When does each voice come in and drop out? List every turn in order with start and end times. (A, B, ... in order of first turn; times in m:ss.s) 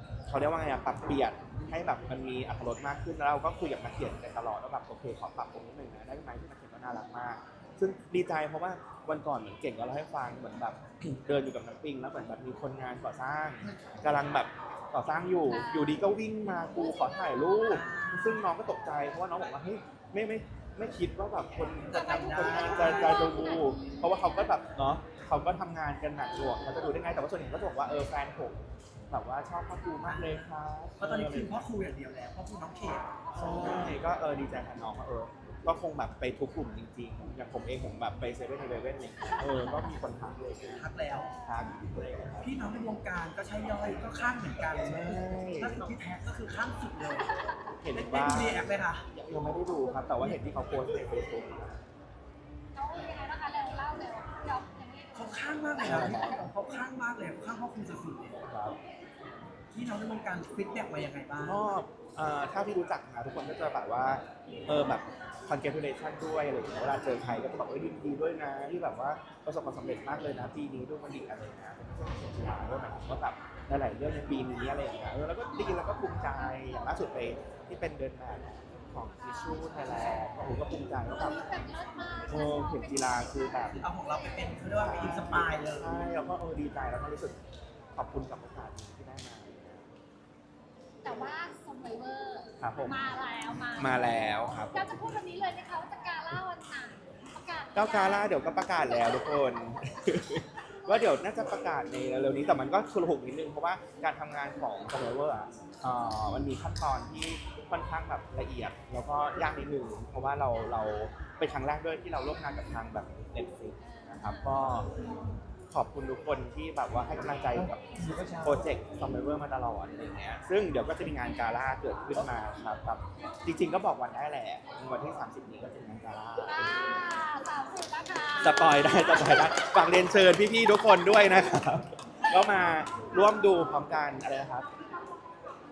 0:00.3-0:31.6 A
0:13.6-0:14.0 B
0:15.5-0:16.0 C
0:17.6-0:18.5 B
0:21.8-0:23.2 B
0:21.9-0:24.5 C
0:30.0-0:33.6 B
0:33.3-0:33.9 C
0:33.4-0:40.8 A
0:39.3-0:40.0 C
0:40.8-0:41.3 B
0:41.1-0:41.8 C
0:41.4-0:42.5 A
0:42.4-0:47.3 B
0:44.8-0:45.9 A
0:47.2-0:47.8 C
0:47.8-0:51.8 A
0:47.9-0:49.1 B
0:49.4-0:50.4 C
0:52.7-0:56.4 C
0:55.2-0:58.4 B
0:55.8-0:56.4 A
0:58.5-0:58.8 A
0:59.7-1:01.6 B
1:01.4-1:21.4 A
1:15.5-1:17.1 C
1:19.2-1:23.3 C
1:22.3-1:23.8 A
1:23.8-1:26.0 B
1:24.8-1:27.4 A
1:27.9-1:29.9 A
1:31.0-1:39.8 C
1:32.6-1:33.0 A
1:33.7-1:35.1 A
1:37.7-1:54.9 A
1:53.8-1:54.8 C
1:55.7-2:06.9 A
2:06.4-2:10.0 C
2:08.4-2:14.7 A